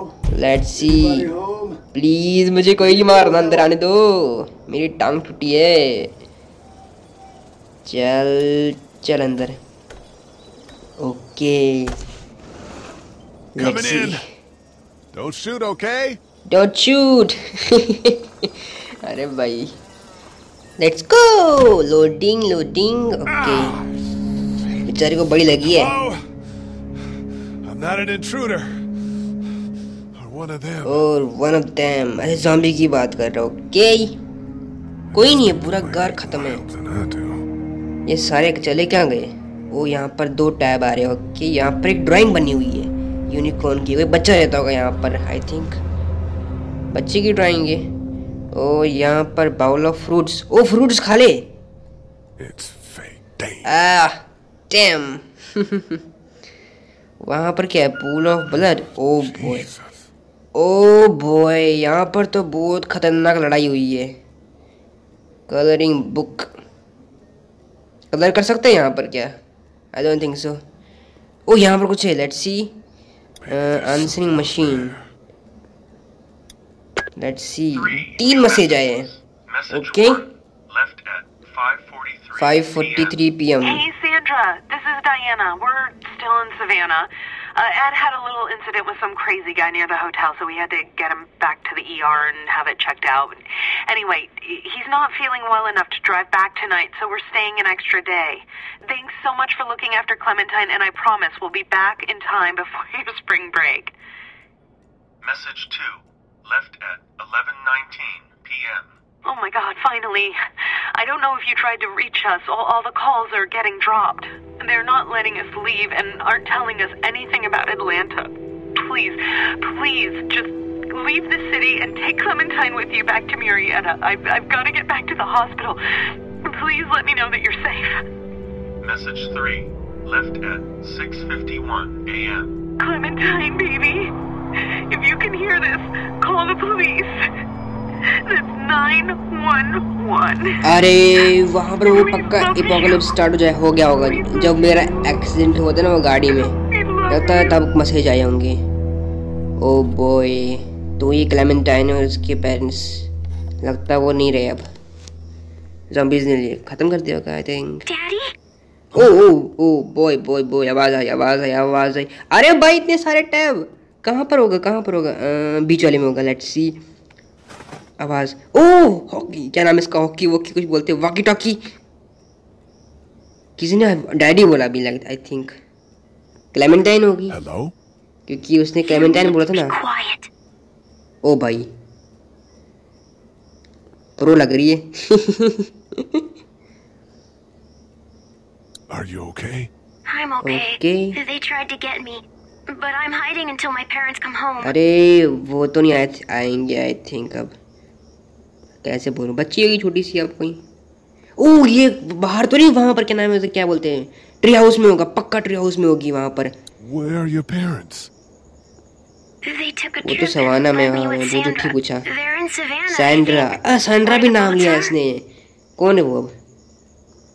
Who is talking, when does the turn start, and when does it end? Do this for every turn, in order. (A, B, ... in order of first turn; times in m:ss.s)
0:00.3-0:01.4 A
0:01.3-0:01.6 B
0:01.9-0:06.1 A
0:07.9-0:09.6 A
0:11.0-0:11.9 A
0:13.6-0:14.2 A
0:13.6-0:14.2 B
0:15.1-0:16.2 B
0:16.5-0:18.5 A
0:19.0-0:19.7 A
0:20.8-0:23.8 A
0:23.3-0:23.8 B
0:24.9-0:25.9 A
0:25.6-0:26.2 B
0:27.6-0:28.7 B
0:30.2-0:31.0 B
0:30.8-0:34.2 A
0:35.1-0:37.5 B
0:35.2-0:36.6 A
0:38.1-0:45.8 A
0:46.9-0:47.8 A
0:48.5-0:51.5 A
0:52.4-0:53.7 B
0:53.6-0:56.0 A
0:57.2-0:59.7 A
0:58.5-1:00.1 B
1:00.6-1:04.2 A
1:05.5-1:06.5 A
1:08.1-1:09.4 A
1:09.9-1:10.6 A
1:11.5-1:12.7 A
1:13.4-1:15.0 B
1:13.5-1:15.0 A
1:17.2-1:19.1 A
1:17.8-1:18.8 C
1:19.5-1:23.2 C
1:19.7-1:20.3 A
1:22.4-1:23.8 A
1:23.6-1:43.9 D
1:45.2-1:48.9 C
1:49.2-1:50.4 D
1:50.9-2:05.8 D
2:06.5-2:08.0 D
2:08.8-2:12.6 C
2:12.8-2:17.2 D
2:18.3-2:20.6 D
2:20.6-2:26.5 A
2:21.8-2:23.1 D
2:24.0-2:25.3 D
2:26.7-2:27.6 D
2:27.1-2:28.6 A
2:29.6-2:33.1 A
2:33.6-2:34.6 A
2:35.9-2:37.8 A
2:37.9-2:38.3 E
2:38.9-2:46.8 A
2:48.0-2:51.6 A
2:53.6-2:55.6 A
2:56.5-2:57.4 A
2:57.3-2:57.7 B
2:58.3-2:59.8 A
2:58.8-3:00.3 E
3:01.2-3:01.7 A
3:04.2-3:05.7 A
3:08.9-3:09.7 B
3:10.1-3:14.8 E
3:10.4-3:11.2 A
3:14.6-3:17.5 A
3:18.8-3:20.6 A
3:21.4-3:26.5 A
3:26.8-3:28.1 B
3:29.4-3:35.0 E
3:30.0-3:32.1 A
3:32.9-3:35.2 A
3:35.8-3:36.3 A